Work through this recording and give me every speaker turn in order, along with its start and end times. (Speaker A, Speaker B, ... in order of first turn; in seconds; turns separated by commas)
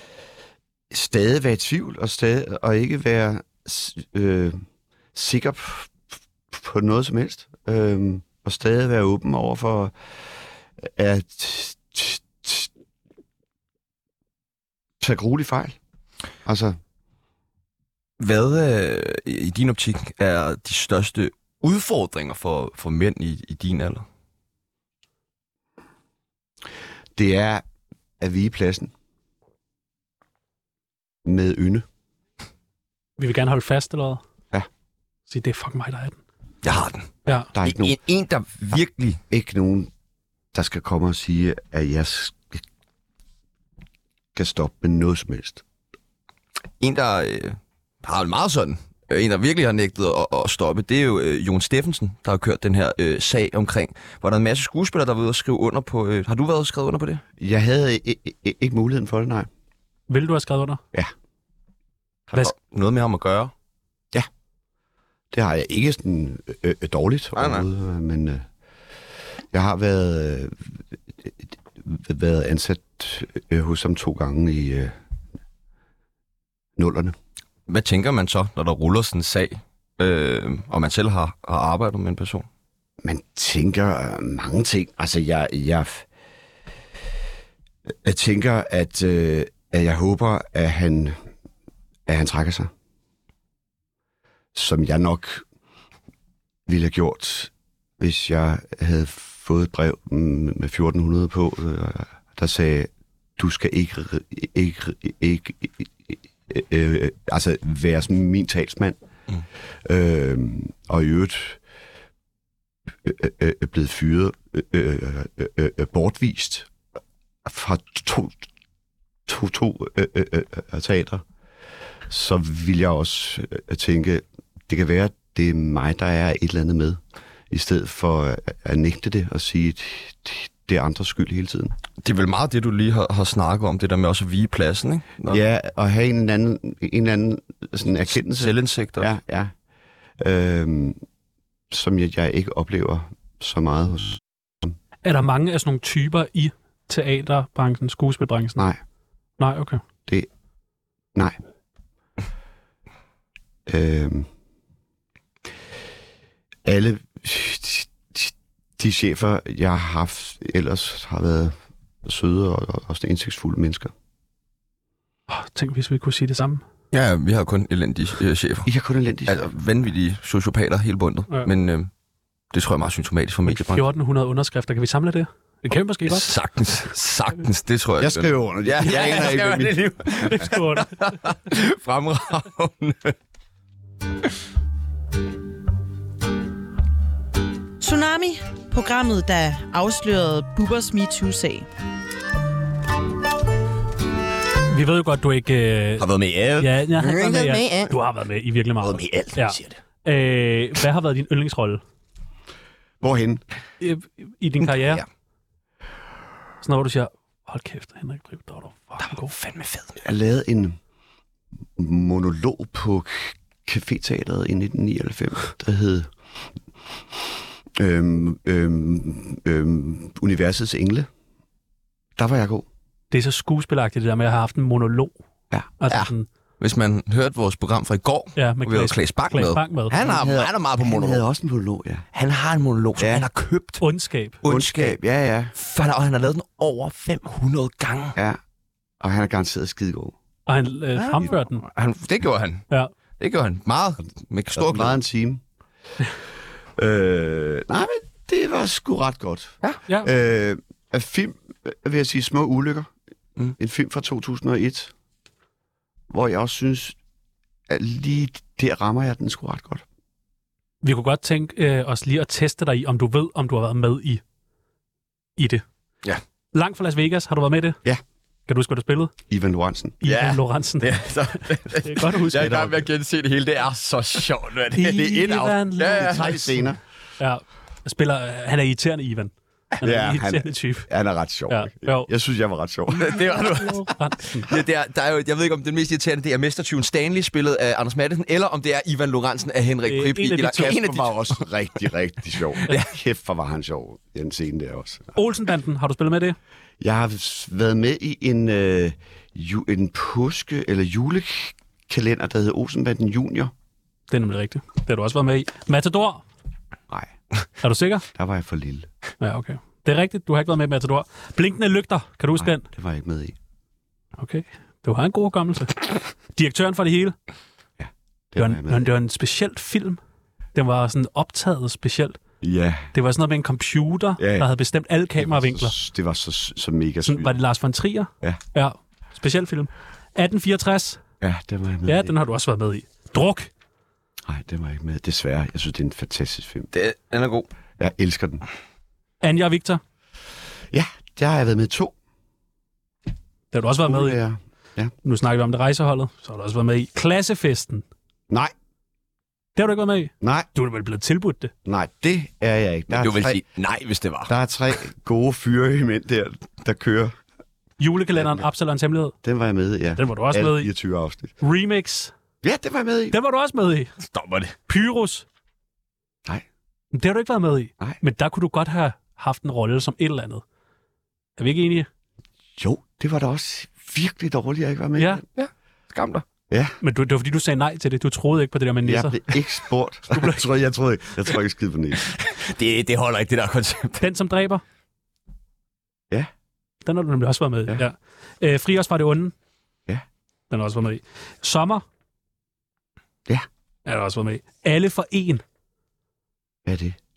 Speaker A: 0.9-4.6, Speaker A: 5.1-9.9, Speaker A: 10.8-12.7, Speaker A: 15.0-15.8, Speaker A: 16.4-16.8, Speaker B: 18.2-24.0, Speaker A: 27.1-27.6, Speaker A: 28.2-28.9, Speaker A: 31.2-31.9, Speaker C: 33.2-34.2, Speaker C: 35.3-36.2, Speaker B: 36.6-39.2, Speaker A: 37.5-38.0, Speaker A: 39.3-39.9, Speaker A: 40.5-42.6, Speaker A: 44.3-45.6, Speaker B: 46.8-57.2, Speaker A: 57.4-59.5, Speaker C: 60.1-60.8, Speaker B: 62.3-63.5, Speaker A: 65.3-68.4, Speaker B: 67.3-67.7, Speaker A: 69.5-74.9, Speaker A: 76.8-77.2, Speaker B: 77.7-82.5, Speaker A: 83.0-86.0, Speaker A: 88.0-91.2, Speaker A: 92.1-92.7, Speaker A: 94.5-95.4, Speaker A: 96.7-109.0, Speaker A: 109.8-111.6, Speaker A: 113.0-116.7, Speaker A: 117.4-118.5, Speaker A: 119.3-121.2, Speaker A: 122.1-131.7, Speaker B: 132.0-135.4, Speaker A: 135.3-139.5, Speaker B: 138.1-139.1, Speaker A: 140.2-141.0, Speaker A: 141.7-144.7, Speaker C: 145.0-148.7, Speaker C: 149.4-149.8, Speaker A: 153.7-154.3, Speaker A: 156.6-163.9, Speaker C: 165.3-166.6, Speaker B: 166.9-168.7, Speaker A: 168.7-169.5, Speaker B: 169.3-171.9, Speaker B: 172.5-173.9, Speaker C: 173.5-176.3, Speaker B: 176.0-183.1, Speaker A: 178.0-179.9, Speaker C: 180.2-181.1, Speaker D: 187.8-191.7, Speaker C: 194.7-196.1, Speaker B: 196.0-197.9, Speaker C: 196.6-201.8, Speaker B: 198.8-199.8, Speaker A: 203.0-203.4, Speaker C: 203.8-205.0, Speaker B: 204.7-205.0, Speaker C: 206.6-209.3, Speaker B: 209.0-210.0, Speaker A: 210.0-210.8, Speaker A: 211.8-216.1, Speaker A: 217.8-221.1, Speaker A: 222.2-222.7, Speaker C: 223.1-225.1, Speaker C: 225.8-226.3, Speaker B: 225.9-231.2, Speaker C: 228.3-230.0, Speaker A: 230.0-232.0, Speaker B: 232.1-233.8, Speaker A: 233.0-233.2, Speaker C: 233.8-234.4, Speaker B: 234.4-235.0, Speaker A: 234.4-235.5, Speaker B: 235.5-238.2, Speaker A: 239.0-240.1, Speaker C: 240.5-241.6, Speaker B: 240.9-242.6, Speaker B: 243.2-245.0, Speaker A: 244.5-245.4, Speaker A: 246.8-252.9, Speaker A: 253.6-254.9, Speaker A: 256.1-256.9, Speaker A: 257.7-259.8, Speaker C: 260.8-264.2, Speaker C: 265.4-265.6, Speaker C: 266.5-267.8, Speaker C: 268.5-269.1, Speaker A: 269.3-270.0, Speaker C: 270.0-272.7, Speaker B: 270.0-275.0, Speaker A: 272.3-272.8, Speaker C: 274.7-280.9, Speaker A: 274.8-276.8, Speaker B: 275.8-276.3, Speaker A: 279.8-283.3, Speaker C: 281.5-282.1, Speaker B: 283.0-291.4, Speaker C: 283.1-284.5, Speaker C: 289.9-291.0, Speaker A: 290.5-295.1, Speaker C: 295.1-296.4, Speaker A: 296.8-303.5, Speaker C: 304.1-306.2, Speaker C: 307.6-308.0, Speaker A: 308.1-308.9, Speaker C: 309.2-312.7, Speaker A: 312.4-313.4, Speaker C: 314.2-317.1, Speaker A: 317.8-318.9, Speaker C: 318.4-320.0, Speaker C: 320.5-322.2, Speaker A: 322.4-322.9, Speaker C: 322.9-325.7, Speaker A: 324.2-324.5, Speaker A: 325.1-327.4, Speaker C: 327.0-331.0, Speaker A: 331.2-332.1, Speaker C: 331.9-333.5, Speaker A: 334.2-336.7, Speaker B: 336.7-337.5, Speaker A: 337.8-338.4, Speaker C: 339.2-339.8, Speaker A: 340.7-341.9, Speaker C: 343.5-344.2, Speaker A: 343.8-344.9, Speaker C: 345.0-347.8, Speaker C: 349.6-351.5, Speaker A: 350.2-350.5, Speaker A: 351.6-353.4, Speaker B: 352.9-354.3, Speaker A: 354.2-357.2, Speaker C: 357.8-359.1, Speaker A: 359.2-361.3, Speaker C: 360.0-360.7, Speaker C: 361.4-362.1, Speaker A: 362.4-363.1, Speaker C: 363.1-363.9, Speaker B: 364.0-364.5, Speaker C: 364.7-365.2, Speaker C: 366.9-370.4, Speaker C: 371.4-371.9, Speaker A: 372.6-375.2, Speaker C: 375.0-375.2, Speaker B: 375.4-376.2, Speaker A: 376.5-376.8, Speaker C: 376.8-379.2, Speaker A: 378.8-382.1, Speaker C: 380.1-380.4, Speaker B: 382.0-384.0, Speaker C: 384.0-384.6, Speaker C: 386.8-389.3, Speaker C: 390.5-391.8, Speaker C: 393.9-395.4, Speaker A: 396.6-397.0